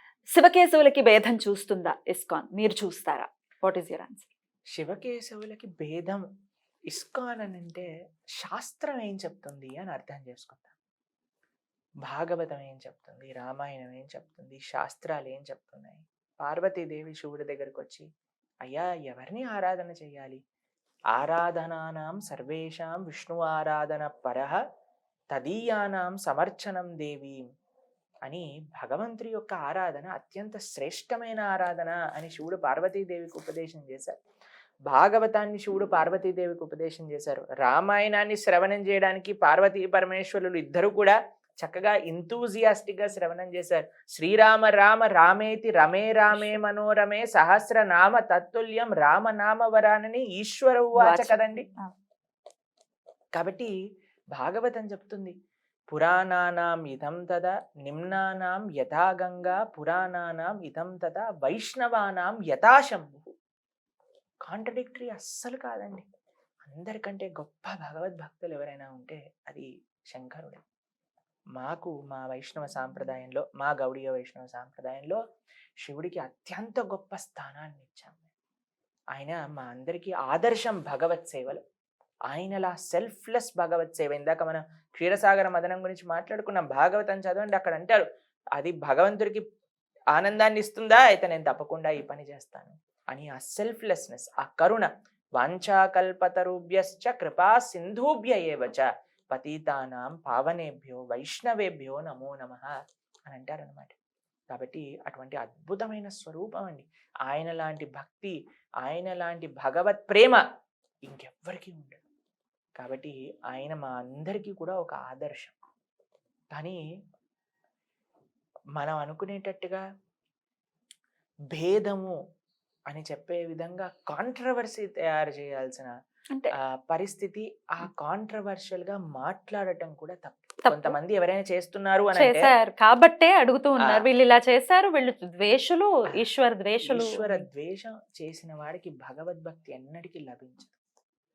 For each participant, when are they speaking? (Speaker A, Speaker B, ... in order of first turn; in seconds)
Speaker A: 0.3-4.3, 46.3-46.6, 51.0-51.9, 130.6-131.0, 132.1-137.4
Speaker B: 4.8-6.2, 6.9-7.9, 8.4-10.7, 12.1-18.1, 18.7-20.4, 21.1-24.6, 25.3-27.4, 28.3-34.2, 34.9-51.7, 53.4-53.7, 54.3-55.3, 55.9-63.3, 64.5-66.0, 66.7-70.6, 71.6-75.2, 75.8-78.3, 79.1-81.6, 82.3-88.0, 88.6-89.4, 90.1-102.8, 103.3-104.0, 104.5-110.4, 111.1-112.0, 112.8-115.5, 116.5-116.8, 118.8-119.8, 121.5-122.2, 122.9-125.9, 126.6-132.5, 136.8-140.8